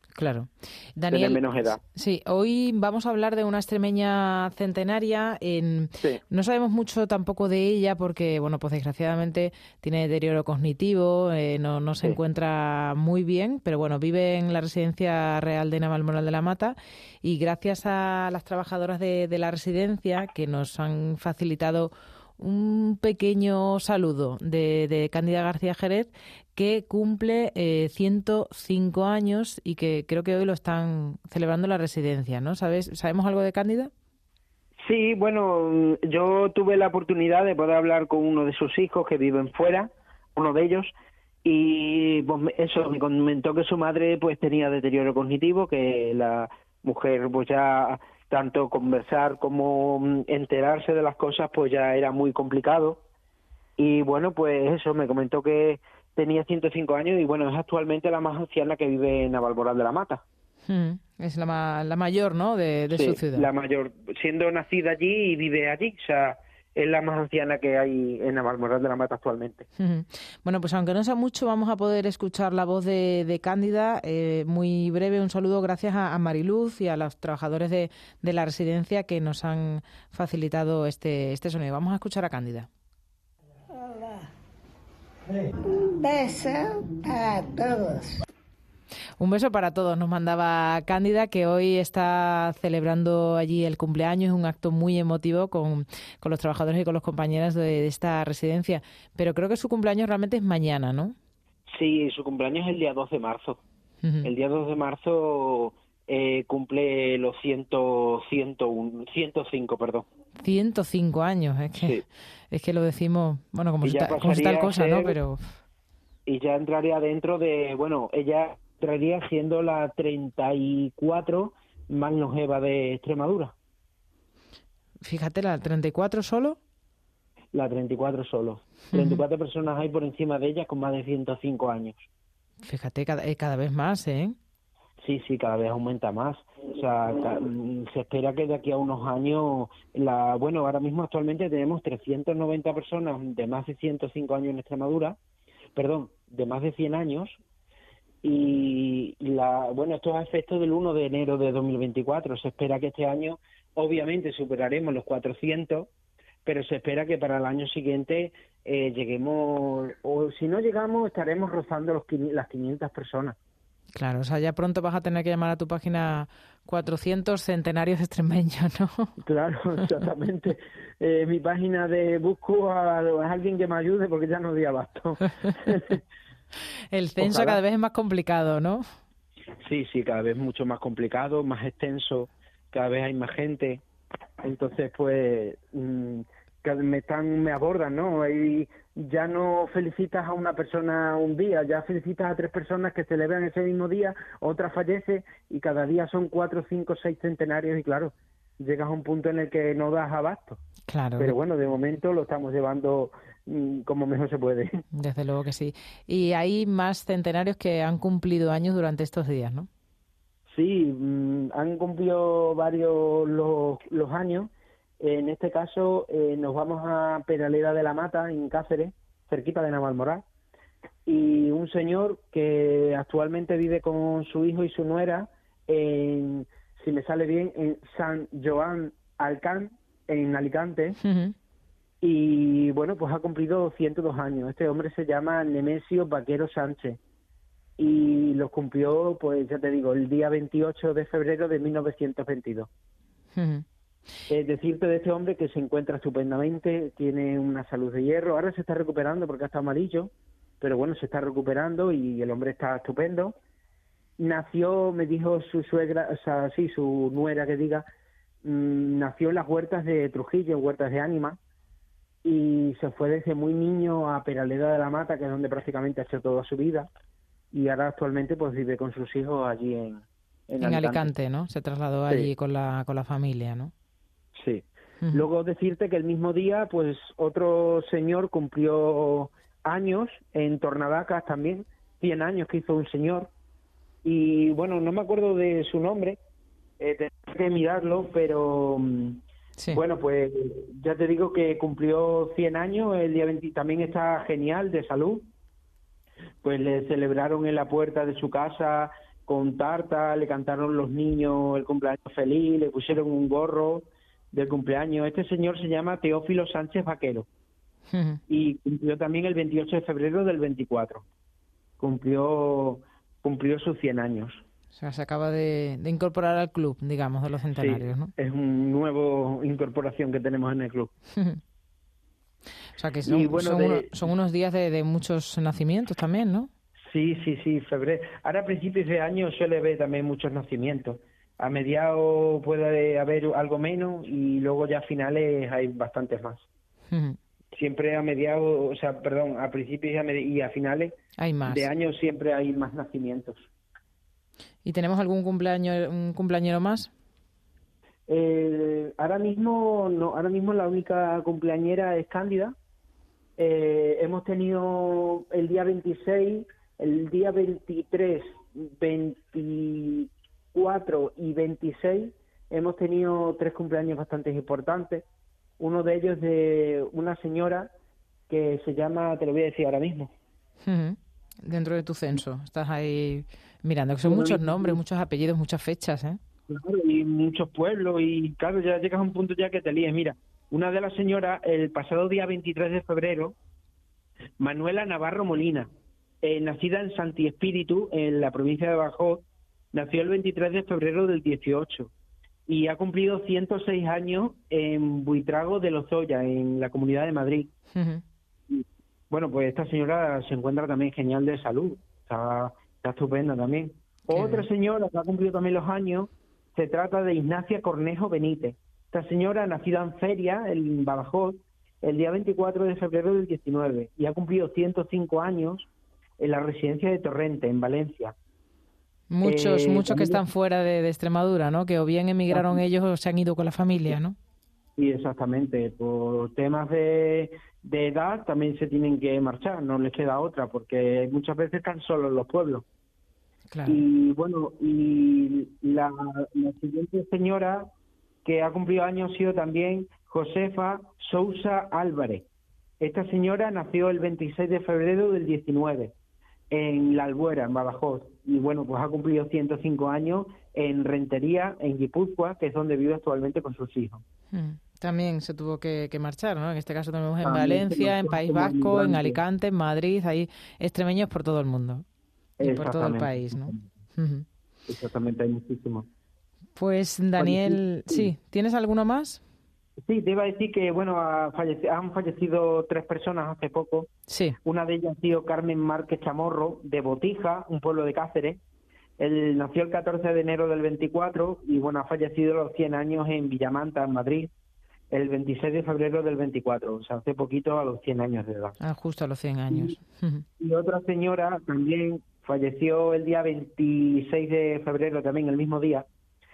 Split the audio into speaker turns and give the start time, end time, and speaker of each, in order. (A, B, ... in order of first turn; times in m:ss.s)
0:00.2-0:33.9 A
0:01.1-0:01.8 B
0:34.8-0:40.9 B
0:41.4-0:53.0 B
0:53.8-1:00.2 B
1:00.7-1:03.5 A
1:02.9-1:09.7 B
1:09.8-1:22.7 A
1:23.7-1:24.3 C
1:25.6-1:28.2 C
1:29.2-1:41.2 A
1:41.7-1:43.6 B
1:44.0-1:44.3 A
1:44.2-1:50.1 B
1:50.4-1:55.5 A
1:53.8-1:55.2 B
1:56.3-2:03.6 B
2:05.0-2:06.6 A
2:07.5-2:12.1 B
2:08.9-2:09.2 A
2:12.6-2:14.4 A
2:15.0-2:25.2 B
2:25.8-2:27.4 B
2:28.2-2:35.9 B
2:36.4-2:43.4 B
2:44.0-2:49.1 A
2:49.2-2:56.0 B
2:56.9-2:58.9 A
2:57.2-2:57.6 B
2:59.6-3:03.8 B
3:04.4-3:20.6 B
3:20.9-3:21.4 A
3:21.2-3:24.8 B
3:24.9-3:29.7 A
3:30.5-3:40.2 B
3:41.1-3:51.0 B
3:51.0-3:51.4 A
3:52.0-3:57.0 B
3:57.8-4:02.7 B
4:03.4-4:03.6 A
4:04.3-4:13.4 B
4:14.2-4:17.9 B
4:18.4-4:21.4 B
4:22.2-4:26.9 B
4:27.5-4:31.1 B
4:30.6-4:33.7 A
4:34.4-4:43.3 B
4:44.0-4:46.2 B
4:46.8-4:55.3 B
4:56.4-5:07.3 B
5:07.9-5:08.2 A
5:08.3-5:11.0 B
5:11.8-5:14.4 B
5:14.8-5:18.1 A
5:17.6-5:20.9 B
5:21.2-5:21.4 A
5:22.8-5:26.5 A
5:23.1-5:23.9 B
5:26.8-5:36.5 B
5:36.9-5:37.2 A
5:37.5-5:43.5 B
5:41.2-5:41.7 A
5:44.6-5:46.9 A
5:48.1-5:52.6 B
5:53.4-6:05.1 B
6:05.6-6:07.7 B
6:08.3-6:10.1 B
6:10.6-6:16.2 A
6:14.0-6:14.8 B
6:16.5-6:23.4 B
6:24.4-6:25.7 B
6:26.2-6:31.9 B
6:32.5-6:37.5 B
6:37.7-6:38.0 A
6:38.5-6:55.7 B
6:44.1-6:44.5 A
6:56.2-6:58.2 B
6:59.1-7:04.2 A
6:59.2-7:00.2 B
7:02.3-7:02.6 B
7:04.8-7:12.6 B
7:13.5-7:13.8 A
7:13.7-7:17.7 B
7:18.2-7:22.3 B
7:22.8-7:25.9 B
7:26.5-7:34.0 B
7:34.3-7:41.8 A
7:37.2-7:39.2 B
7:42.4-7:43.7 B
7:42.4-7:44.3 A
7:44.7-7:45.9 B
7:46.6-7:49.2 A
7:47.2-7:48.1 B
7:49.8-7:53.9 B
7:54.1-7:54.4 A
7:54.4-7:58.4 B
7:59.0-8:04.3 B
8:04.9-8:08.6 B
8:08.6-8:10.3 A
8:10.4-8:15.9 B